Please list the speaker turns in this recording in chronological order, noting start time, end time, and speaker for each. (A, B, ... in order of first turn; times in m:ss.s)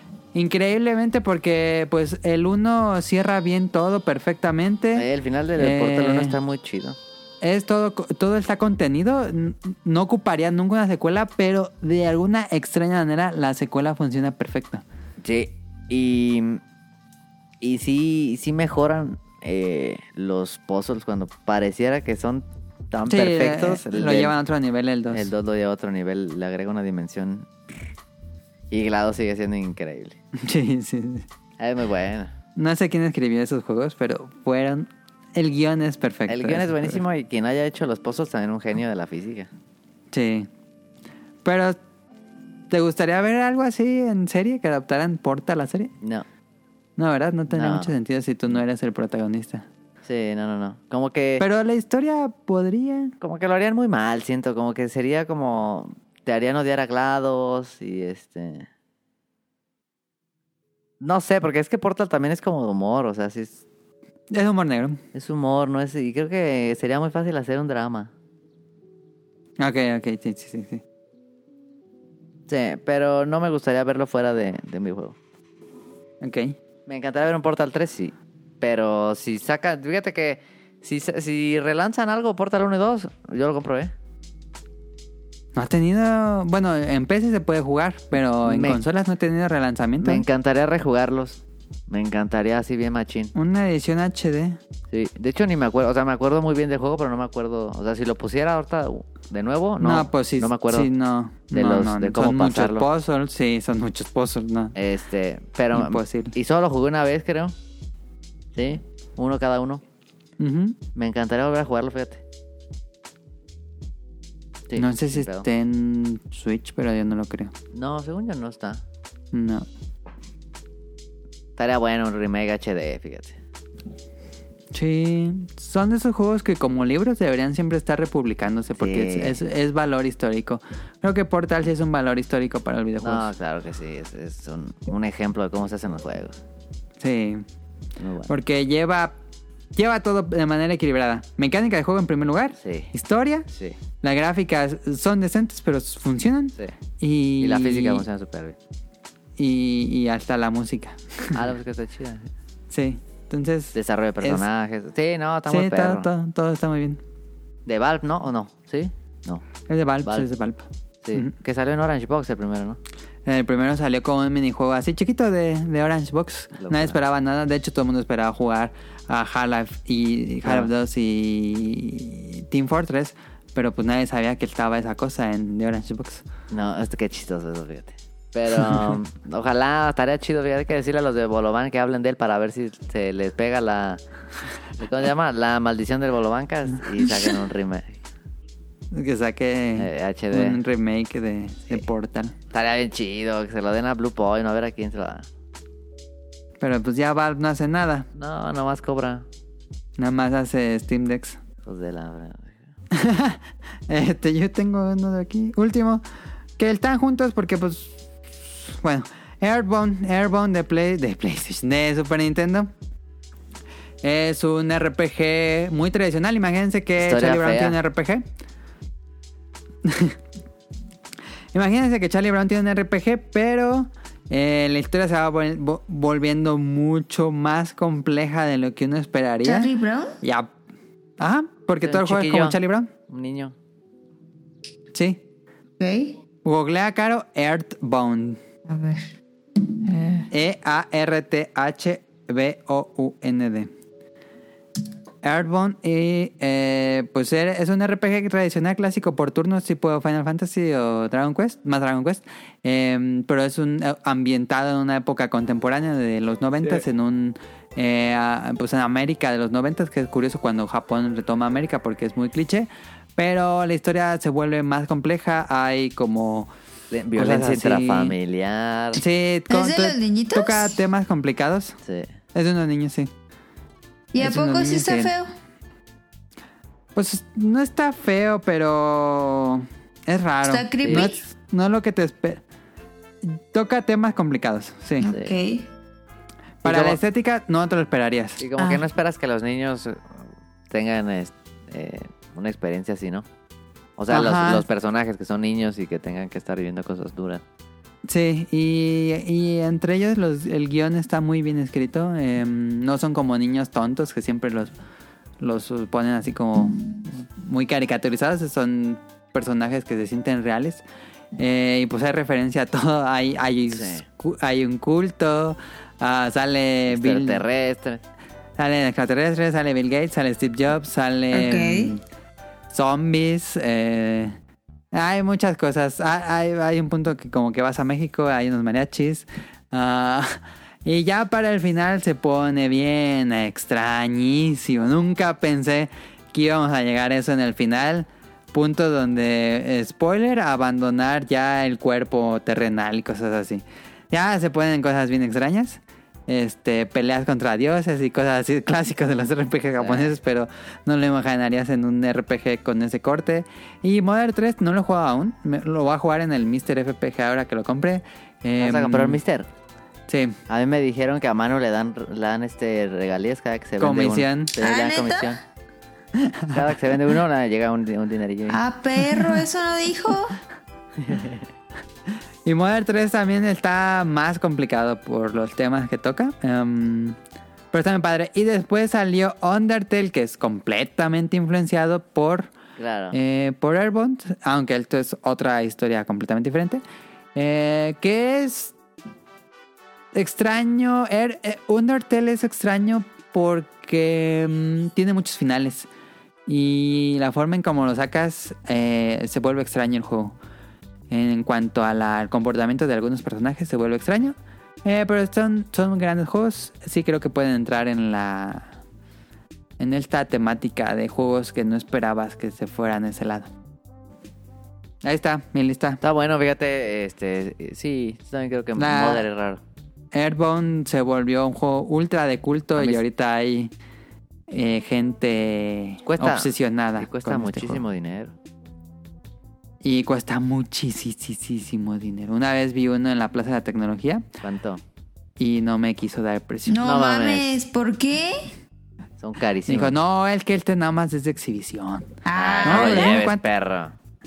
0:00.3-0:05.1 A
0:05.0-0:07.0 B
0:05.6-0:06.4 A
0:07.4-0:14.8 A
0:15.2-0:16.6 B
0:17.6-0:24.4 B
0:23.1-0:25.3 A
0:25.1-0:27.5 B
0:28.7-0:30.2 B
0:30.4-0:31.3 A
0:31.6-0:32.3 B
0:32.6-0:37.0 A
0:36.3-0:39.5 B
0:40.1-0:40.5 A
0:41.4-0:41.8 A
0:42.7-0:45.9 A
0:46.0-0:46.3 B
0:47.0-0:49.7 A
0:47.5-0:47.9 B
0:50.0-0:51.4 B
0:51.4-0:53.1 A
0:53.2-0:58.7 B
1:01.0-1:03.6 B
1:04.3-1:05.0 A
1:05.1-1:08.1 B
1:09.6-1:10.8 A
1:12.5-1:15.2 B
1:16.2-1:16.6 A
1:16.9-1:23.9 B
1:25.6-1:30.2 A
1:28.4-1:28.8 B
1:30.0-1:33.3 B
1:33.4-1:34.6 A
1:34.9-1:40.9 B
1:39.8-1:44.7 A
1:41.5-1:42.9 B
1:44.8-1:47.6 B
1:45.7-1:46.3 A
1:48.5-1:49.8 B
1:50.4-1:50.8 A
1:51.0-1:52.2 B
1:54.7-1:55.5 B
1:54.8-1:57.5 A
1:57.7-1:58.8 B
1:59.3-1:59.7 A
2:01.6-2:03.4 B
2:04.7-2:13.3 A
2:08.8-2:09.4 B
2:13.0-2:16.4 B
2:17.0-2:17.4 A
2:18.0-2:18.3 B
2:18.3-2:19.2 A
2:19.8-2:23.5 A
2:22.6-2:22.9 B
2:23.5-2:23.8 B
2:24.0-2:28.0 A
2:27.4-2:28.6 B
2:29.4-2:31.4 A
2:31.3-2:32.3 B
2:32.7-2:34.4 A
2:33.7-2:36.1 B
2:35.5-2:37.0 A
2:37.7-2:39.4 B
2:39.7-2:41.3 A
2:40.0-2:40.3 B
2:41.0-2:42.8 B
2:43.3-2:56.2 A
2:46.6-2:47.0 B
2:50.4-2:50.7 B
2:56.5-3:04.0 B
3:04.8-3:08.0 B
3:08.9-3:12.3 A
3:09.8-3:10.6 B
3:12.5-3:15.3 B
3:16.6-3:18.1 A
3:18.2-3:19.3 B
3:20.0-3:21.4 A
3:21.6-3:22.6 B
3:22.9-3:26.0 A
3:26.6-3:27.9 A
3:28.5-3:32.7 A
3:34.0-3:38.2 A
3:37.0-3:37.8 B
3:39.8-3:40.2 A
3:41.5-3:50.5 A
3:49.4-3:50.2 C
3:51.2-3:52.9 A
3:51.8-3:53.6 B
3:54.9-3:55.2 A
3:55.8-3:56.2 C
3:56.4-3:58.4 A
3:58.7-3:59.1 C
3:59.8-4:00.3 C
4:00.3-4:03.7 A
4:05.2-4:26.5 A
4:26.9-4:29.0 B
4:27.2-4:28.2 A
4:29.0-4:31.8 A
4:29.5-4:30.8 C
4:31.8-4:32.1 B
4:32.4-4:33.1 A
4:34.1-4:35.3 C
4:34.2-4:35.1 A
4:37.0-4:42.4 A
4:40.5-4:41.2 C
4:40.8-4:41.1 B
4:43.2-4:45.1 A
4:45.0-4:45.7 C
4:45.0-4:45.3 B
4:46.6-4:48.4 A
4:46.6-4:47.0 B
4:48.4-4:53.3 B
4:48.6-4:48.8 C
4:54.0-4:57.4 B
4:54.1-4:54.6 A
4:58.1-5:04.7 A
5:05.4-5:10.8 A
5:11.4-5:17.4 A
5:13.7-5:14.0 B
5:16.9-5:18.0 B
5:18.6-5:22.0 A
5:21.3-5:21.9 C
5:22.7-5:24.4 A
5:24.9-5:59.2 A
5:49.8-5:50.2 B
5:58.6-5:59.5 B
6:00.1-6:00.4 A
6:00.5-6:05.4 B
6:03.8-6:04.5 A
6:04.6-6:05.4 C
6:06.2-6:06.6 A
6:06.5-6:08.6 B
6:08.5-6:10.4 C
6:11.0-6:11.4 B
6:12.4-6:17.2 A
6:17.7-6:22.5 A
6:22.8-6:23.2 B
6:23.1-6:26.8 A
6:27.4-6:28.7 A
6:30.1-6:35.9 A
6:36.5-6:40.4 A
6:41.1-6:48.8 A
6:49.8-6:53.5 A
6:55.0-6:56.0 A
6:56.0-6:59.6 B
6:58.8-6:59.3 A
7:00.1-7:03.7 A
7:02.8-7:03.0 B
7:04.5-7:07.8 A
7:06.1-7:08.3 B
7:09.8-7:14.3 A
7:14.4-7:14.8 B
7:15.4-7:16.8 A
7:16.7-7:18.5 C
7:16.8-7:17.6 B
7:19.2-7:20.0 B
7:19.7-7:23.4 A
7:22.2-7:23.2 C
7:22.3-7:24.0 B